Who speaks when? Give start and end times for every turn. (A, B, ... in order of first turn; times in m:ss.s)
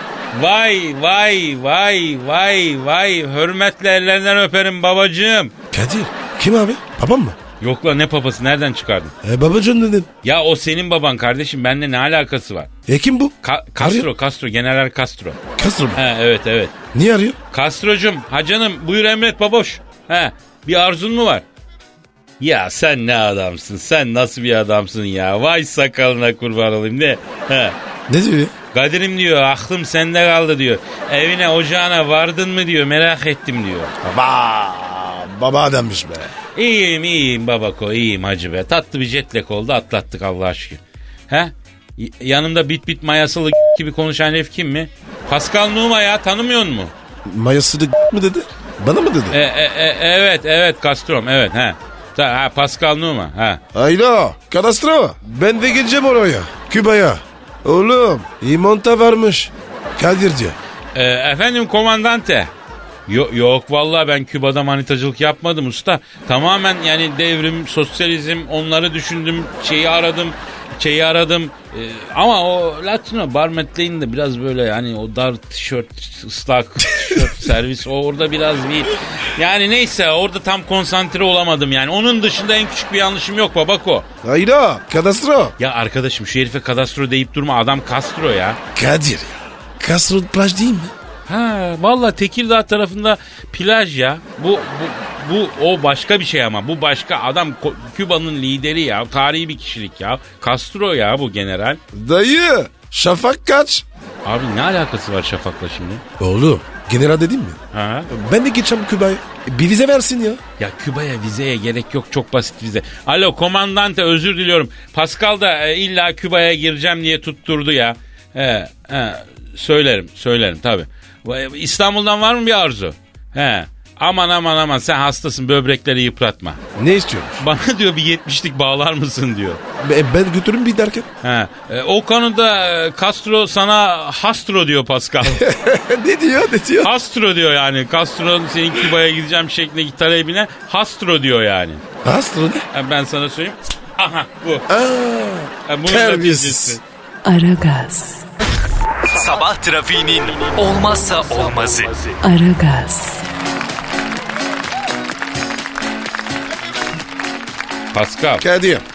0:00.3-0:05.5 A
0:05.7-0:07.4 B
0:07.6-0:09.1 A
0:09.2-0:10.1 B
0:10.2-0:12.7 A
0:12.9-0:14.1 B
0:13.4-0:15.4 A
0:15.6-0:16.0 B
0:16.0-0:16.7 A
0:16.9-0:17.4 B
0:17.5-0:21.4 A
0:22.4-0:27.8 A
0:28.1-0:28.5 B
0:28.7-0:33.9 A
0:34.0-0:36.3 B
0:36.6-0:46.9 A
0:47.2-0:49.4 B
0:49.3-0:53.6 A
0:53.7-1:00.6 B
1:01.0-1:02.5 A
1:03.1-1:24.1 A
1:17.0-1:17.3 B
1:24.2-1:25.5 B
1:25.6-1:28.6 A
1:28.7-1:30.9 B
1:31.3-1:41.8 A
1:41.9-1:43.8 B
1:44.2-1:46.0 A
1:46.2-1:50.4 B
1:47.7-1:48.1 A
1:50.6-2:06.6 A
2:06.8-2:07.4 B
2:07.4-2:09.6 A
2:09.8-2:11.1 B
2:11.2-2:15.4 A
2:15.2-2:16.9 B
2:16.8-2:21.8 A
2:22.0-2:22.7 B
2:22.7-2:24.7 A
2:24.7-2:26.8 B
2:25.7-2:26.8 A
2:27.2-2:28.3 C
2:29.1-2:32.1 D
2:32.2-2:33.2 C
2:37.9-2:38.4 A
2:38.4-2:38.8 B